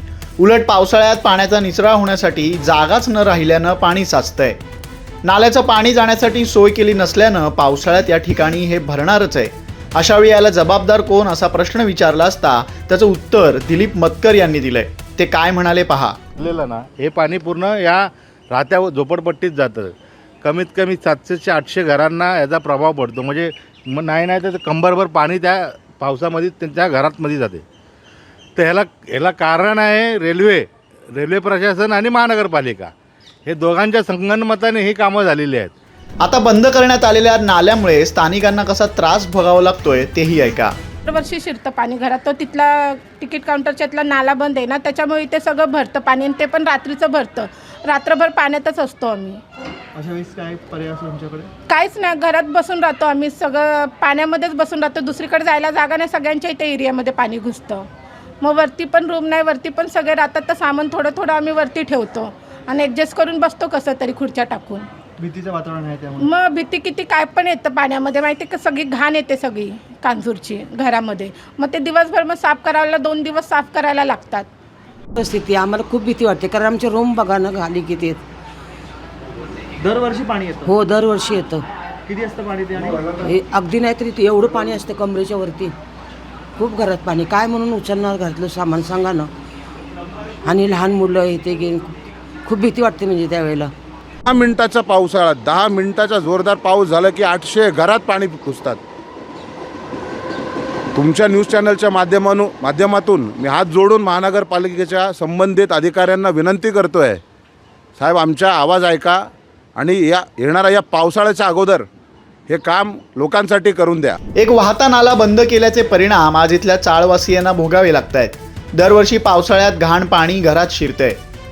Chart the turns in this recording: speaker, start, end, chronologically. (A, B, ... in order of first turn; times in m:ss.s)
0:00.4-0:04.6 A
0:05.2-0:16.2 A
0:16.4-0:27.6 B
0:28.6-0:32.9 B
0:33.4-0:35.7 B
0:36.2-0:40.8 A
0:41.0-0:49.4 C
0:49.9-0:51.5 D
0:51.7-0:57.9 C
0:58.4-1:04.9 C
1:05.2-1:06.3 D
1:06.2-1:14.5 C
1:15.2-1:18.2 E
1:19.8-1:20.7 D
1:20.6-1:21.6 E
1:22.1-1:23.1 D
1:23.2-1:25.7 E
1:26.6-1:29.3 E
1:30.4-1:31.9 E
1:32.4-1:33.7 E
1:34.3-1:38.8 F
1:40.9-1:47.2 F
1:48.0-1:51.8 F
1:52.5-1:54.2 F
1:54.4-2:01.2 A